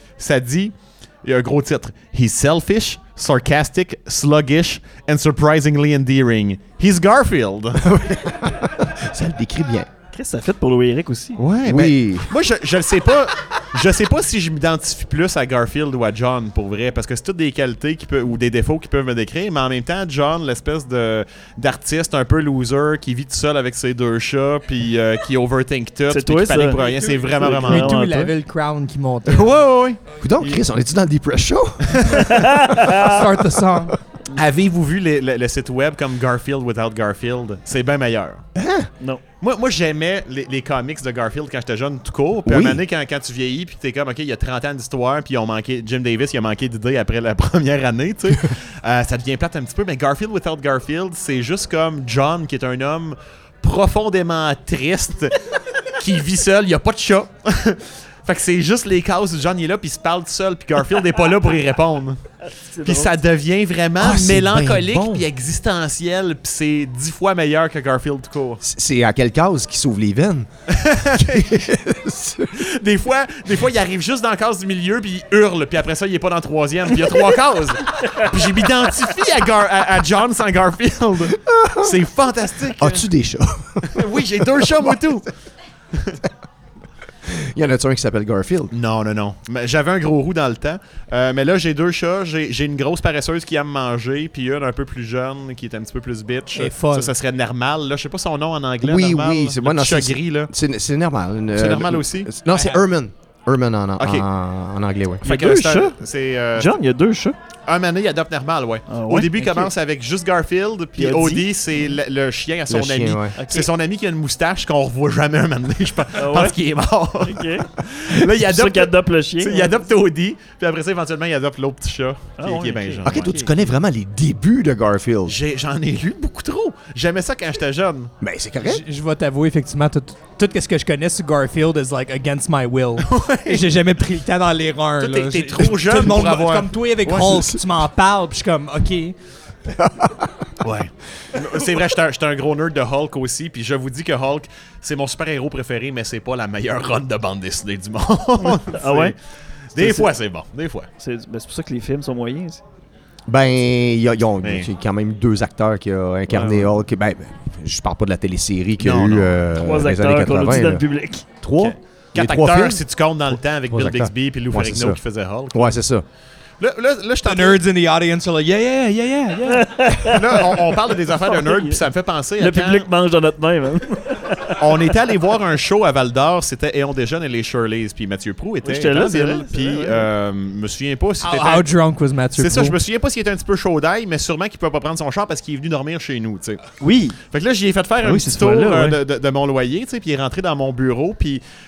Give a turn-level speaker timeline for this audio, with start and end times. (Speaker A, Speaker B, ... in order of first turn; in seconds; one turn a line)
Speaker A: 0.2-7.8
Speaker B: 7.8-9.9
Speaker C: 10.1-11.4
Speaker A: 11.4-27.9
Speaker B: 11.6-12.3
Speaker C: 26.1-28.3
Speaker D: 27.4-29.5
Speaker A: 29.2-30.6
Speaker B: 30.2-32.2
Speaker A: 31.8-32.4
Speaker C: 32.2-33.1
Speaker D: 32.8-34.0
Speaker A: 34.3-38.4
Speaker B: 38.5-38.9
Speaker A: 39.4-62.2
Speaker B: 42.5-42.8
Speaker C: 62.4-63.1
Speaker A: 62.8-68.6
Speaker B: 64.0-65.3
Speaker B: 68.6-70.5
Speaker A: 70.7-71.7
Speaker B: 71.1-72.6
Speaker A: 72.5-83.0
Speaker B: 81.4-82.0
Speaker B: 82.8-85.0
Speaker A: 83.8-85.3
Speaker A: 85.9-86.2
Speaker B: 87.2-88.7
Speaker A: 88.7-100.5
Speaker D: 96.5-97.1
Speaker B: 98.8-105.2
Speaker A: 101.5-102.3
Speaker D: 102.5-102.8
Speaker A: 104.0-104.2
Speaker C: 105.2-106.0
Speaker A: 105.2-106.7
Speaker C: 106.5-107.4
Speaker A: 107.7-123.4
Speaker C: 108.9-109.7
Speaker C: 111.0-111.5
Speaker B: 112.7-113.3
Speaker C: 113.3-113.7
Speaker C: 116.2-116.6
Speaker C: 117.2-119.8
Speaker C: 122.4-123.5
Speaker B: 123.0-125.4
Speaker A: 125.2-128.1
Speaker B: 128.2-128.8
Speaker D: 128.6-139.1
Speaker A: 133.0-133.7
Speaker A: 135.0-137.4
Speaker B: 137.1-137.6
Speaker B: 139.8-140.3
Speaker A: 140.6-149.1
Speaker C: 148.4-149.1
Speaker A: 149.7-150.9
Speaker C: 149.8-150.1
Speaker C: 151.0-152.6
Speaker B: 153.3-160.8
Speaker A: 154.4-154.7
Speaker A: 156.3-156.7
Speaker A: 158.8-159.4
Speaker C: 159.5-161.2
Speaker B: 161.4-162.8
Speaker A: 161.6-165.8
Speaker B: 163.7-165.0
Speaker B: 165.5-166.0
Speaker A: 166.6-167.6
Speaker D: 167.2-170.5
Speaker C: 169.5-170.4
Speaker A: 170.1-172.9
Speaker C: 171.1-171.8
Speaker C: 172.4-174.9
Speaker A: 174.5-181.7
Speaker C: 178.6-180.1
Speaker D: 181.2-182.8
Speaker A: 182.4-186.6
Speaker C: 186.8-187.2
Speaker A: 187.2-191.4
Speaker C: 188.0-189.0